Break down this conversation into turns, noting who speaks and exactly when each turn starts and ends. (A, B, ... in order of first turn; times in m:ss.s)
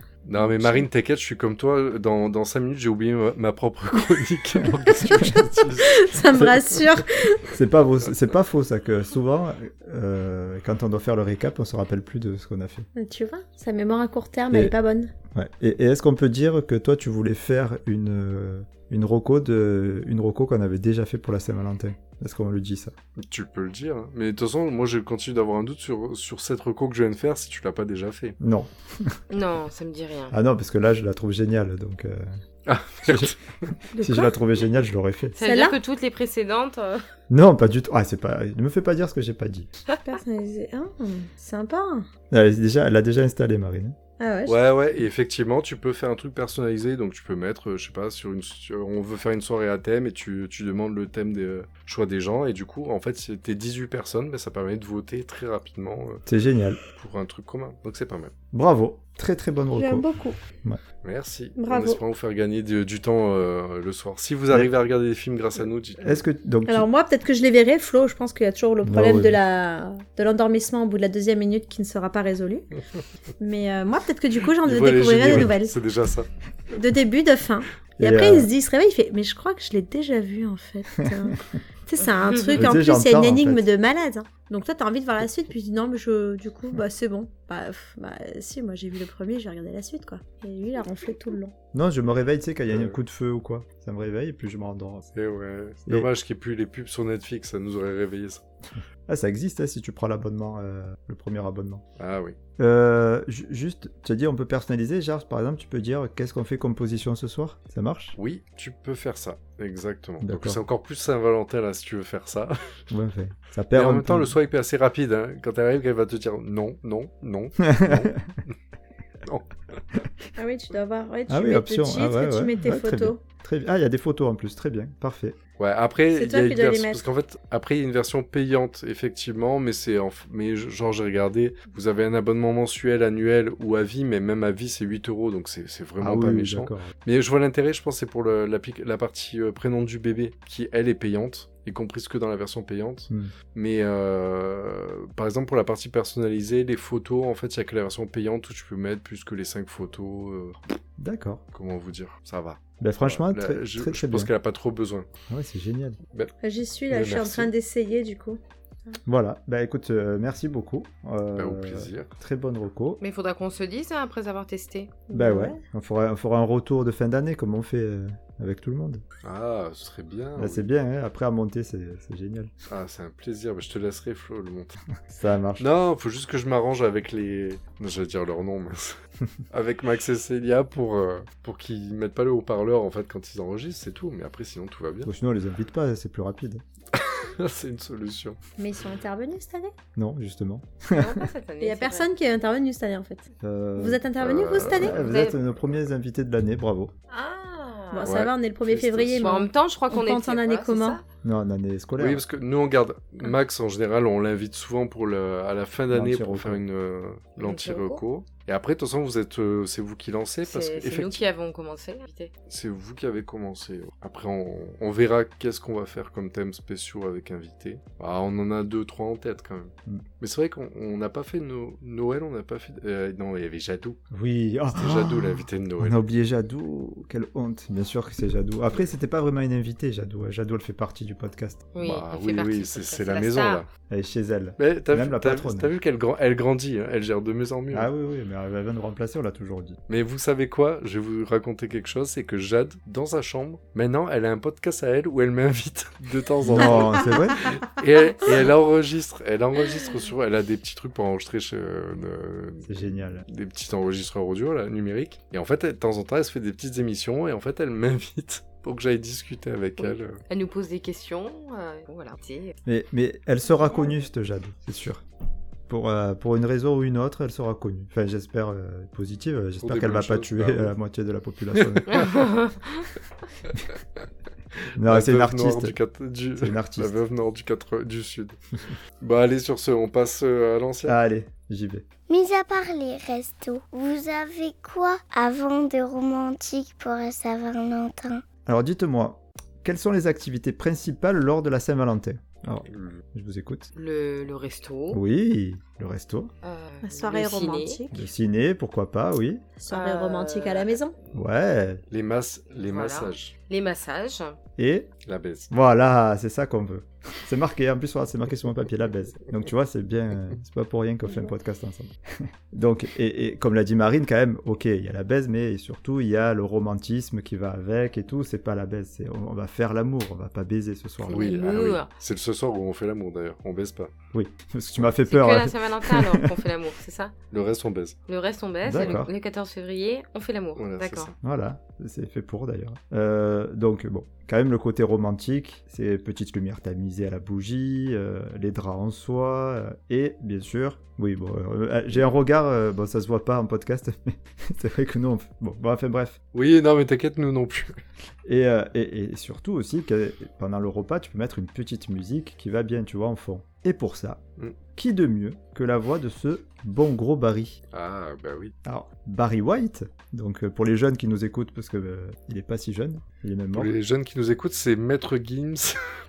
0:00.2-0:06.2 A
0:04.9-0:07.5 B
0:06.4-0:06.7 C
0:07.5-0:12.9 C
0:13.0-0:15.1 B
0:15.3-0:22.9 C
0:23.2-0:28.4 A
0:28.4-0:29.2 C
0:29.3-0:30.4 D
0:30.3-0:32.4 C
0:32.7-0:33.7 A
0:33.0-0:33.3 C
0:33.9-0:34.3 B
0:34.0-0:35.4 C
0:35.4-0:37.0 D
0:35.4-0:35.8 B
0:37.3-0:39.7 C
0:40.0-0:42.1 B
0:42.3-0:44.0 C
0:44.2-0:44.6 B
0:44.5-0:56.2 A
0:56.3-0:56.8 C
0:57.0-0:58.3 A
0:58.5-1:00.1 C
0:59.8-1:00.4 B
1:01.0-1:06.2 A
1:01.6-1:02.0 B
1:06.0-1:06.9 C
1:06.7-1:12.7 B
1:08.8-1:09.4 C
1:13.4-1:15.8 B
1:14.6-1:16.3 A
1:16.8-1:31.5 B
1:18.0-1:18.5 C
1:22.5-1:23.7 C
1:31.7-1:35.1 C
1:32.7-1:33.0 A
1:35.2-1:38.4 A
1:39.1-1:41.8 C
1:42.0-1:42.4 A
1:42.6-1:48.2 C
1:48.2-1:52.6 A
1:50.2-1:50.6 C
1:52.9-1:54.4 C
1:53.7-1:58.5 A
1:57.6-1:58.2 C
1:59.2-1:59.8 A
2:00.4-2:03.2 B
2:01.3-2:05.4 C
2:05.6-2:30.8 A
2:06.1-2:07.0 B
2:16.0-2:16.9 C
2:31.0-2:31.4 C
2:31.5-2:35.1 A
2:32.8-2:34.3 C
2:35.3-2:36.0 C
2:36.4-2:39.0 B
2:36.9-2:37.5 A
2:39.1-2:43.0 C
2:41.4-2:42.1 A
2:43.0-2:45.0 D
2:45.1-2:45.6 B
2:45.1-2:49.0 C
2:49.2-2:50.7 A
2:50.4-2:52.5 C
2:52.7-2:54.8 A
2:55.1-2:55.7 C
2:55.6-2:59.0 A
2:59.5-3:05.1 A
3:05.0-3:06.6 C
3:06.9-3:08.4 A
3:08.6-3:09.7 B
3:10.0-3:11.3 C
3:11.0-3:12.1 D
3:11.6-3:13.2 B
3:13.4-3:16.9 C
3:13.8-3:15.0 B
3:14.2-3:15.3 A
3:15.0-3:15.4 D
3:17.1-3:18.1 D
3:17.9-3:21.0 B
3:18.0-3:19.3 A
3:19.2-3:21.0 D
3:21.2-3:22.2 C
3:22.0-3:31.2 A
3:25.9-3:26.6 C
3:27.4-3:28.0 D
3:30.4-3:32.3 D
3:32.5-3:44.0 A
3:44.1-3:51.6 C
3:44.7-3:46.0 A
3:51.7-3:53.6 D
3:51.8-3:53.7 A
3:53.9-3:55.7 C
3:54.6-3:57.9 A
3:57.7-3:59.8 C
3:59.9-4:20.2 A
4:06.4-4:07.6 C
4:06.6-4:06.8 B
4:12.6-4:13.2 C
4:19.8-4:22.6 D
4:22.7-4:25.0 C
4:25.7-4:32.1 C
4:29.6-4:30.7 A
4:31.6-4:32.1 A
4:31.9-4:32.9 D
4:33.5-4:33.7 A
4:34.8-4:38.4 A
4:34.8-4:35.8 C
4:36.4-4:37.0 C
4:39.0-4:41.0 A
4:40.8-4:41.9 C
4:42.1-4:48.2 E
4:48.5-4:53.7 C
4:52.7-4:53.0 A
4:53.7-4:55.0 D
4:54.9-4:56.3 C
4:56.4-4:57.8 D
4:56.8-4:58.0 B
4:57.9-4:59.4 C
4:59.6-5:00.9 B
4:59.7-5:00.8 D
5:01.1-5:01.8 C
5:01.9-5:03.3 A
5:02.6-5:04.4 D
5:04.6-5:04.9 C
5:05.1-5:05.5 A
5:05.5-5:21.4 C
5:21.0-5:21.9 D
5:21.1-5:23.9 A
5:24.1-5:26.5 C
5:25.0-5:27.2 D
5:27.3-5:28.0 A
5:28.1-5:31.1 D
5:28.6-5:29.1 C
5:30.6-5:31.1 A
5:31.2-5:46.2 C
5:46.3-5:47.8 A
5:48.3-5:54.2 C
5:54.8-5:57.6 C
5:57.7-5:58.5 A
5:58.6-6:03.8 C
6:03.5-6:05.8 A